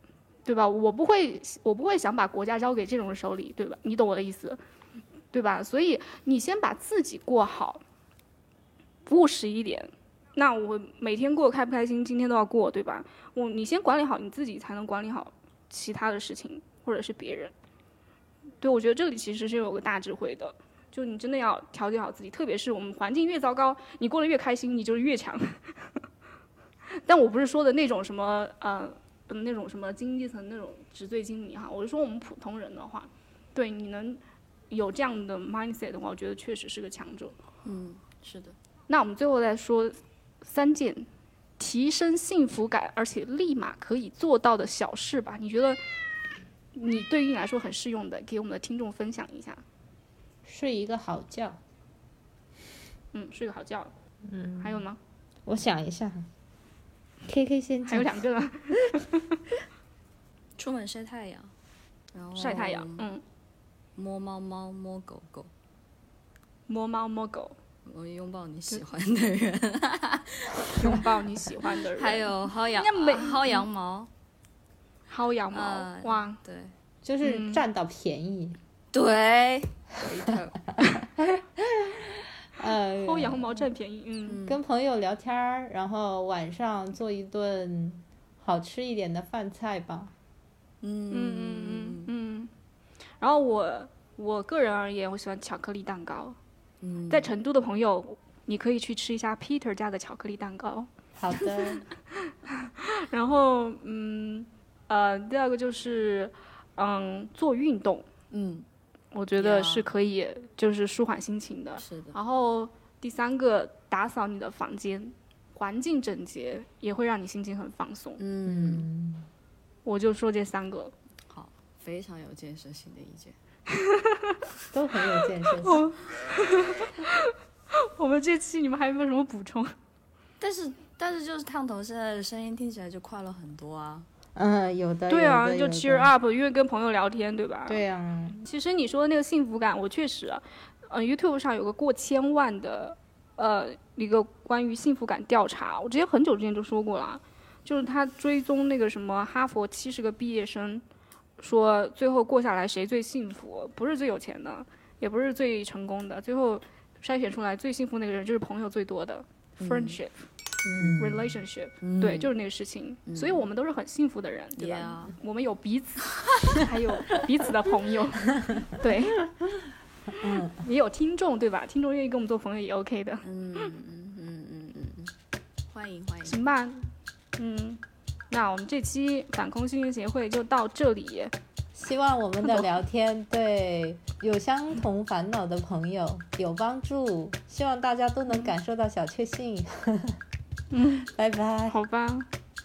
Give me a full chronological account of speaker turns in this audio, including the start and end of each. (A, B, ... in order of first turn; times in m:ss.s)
0:00.4-0:04.6 A
0:05.3-0:07.8 A
0:09.0-0:17.5 A
0:18.6-0:25.9 A
0:27.0-0:34.2 A
0:34.7-0:37.3 A
0:37.6-0:38.6 B
0:38.9-0:41.1 A
0:41.6-0:45.8 A
0:46.7-0:49.6 A
0:50.4-0:51.6 C
0:53.1-0:53.9 A
0:54.2-0:54.8 C
0:54.6-0:55.0 A
0:55.4-0:56.3 C
0:57.2-0:58.2 C
0:57.8-0:59.4 A
1:00.6-1:01.5 B
1:02.1-1:03.1 B
1:02.4-1:03.2 A
1:04.0-1:05.5 B
1:06.7-1:07.6 A
1:07.8-1:10.7 B
1:10.7-1:13.6 A
1:11.7-1:14.1 B
1:15.1-1:16.4 A
1:15.5-1:16.7 B
1:17.0-1:18.6 C
1:17.2-1:17.6 A
1:18.9-1:20.7 B
1:21.2-1:23.6 C
1:23.0-1:24.4 A
1:24.3-1:24.6 B
1:24.4-1:30.1 C
1:30.8-1:32.1 B
1:31.1-1:32.5 A
1:33.2-1:36.4 A
1:36.8-1:37.3 B
1:37.1-1:48.1 A
1:41.2-1:41.8 C
1:48.3-1:48.6 B
1:49.1-1:58.2 A
1:49.4-1:49.9 B
1:51.8-1:52.2 B
1:58.2-1:58.9 B
1:58.4-1:59.3 C
1:59.8-2:00.9 A
2:01.3-2:03.4 B
2:03.8-2:04.4 A
2:04.7-2:05.8 C
2:05.6-2:09.7 A
2:10.4-2:14.1 B
2:14.3-2:16.1 C
2:15.1-2:17.8 A
2:17.7-2:18.4 C
2:18.4-2:30.8 A
2:31.4-2:40.1 A
2:39.6-2:40.0 B
2:40.6-2:41.4 C
2:41.0-2:49.2 A
2:41.8-2:42.3 B
2:43.1-2:43.4 B
2:44.6-2:45.2 B
2:50.1-2:53.2 A
2:50.2-2:50.6 C
2:53.2-2:55.1 B
2:55.7-2:56.4 B
2:56.2-3:01.3 A
3:01.7-3:10.2 C
3:02.4-3:02.7 A
3:08.3-3:08.5 A
3:10.7-3:11.1 A
3:11.1-3:11.8 C
3:11.7-3:12.3 A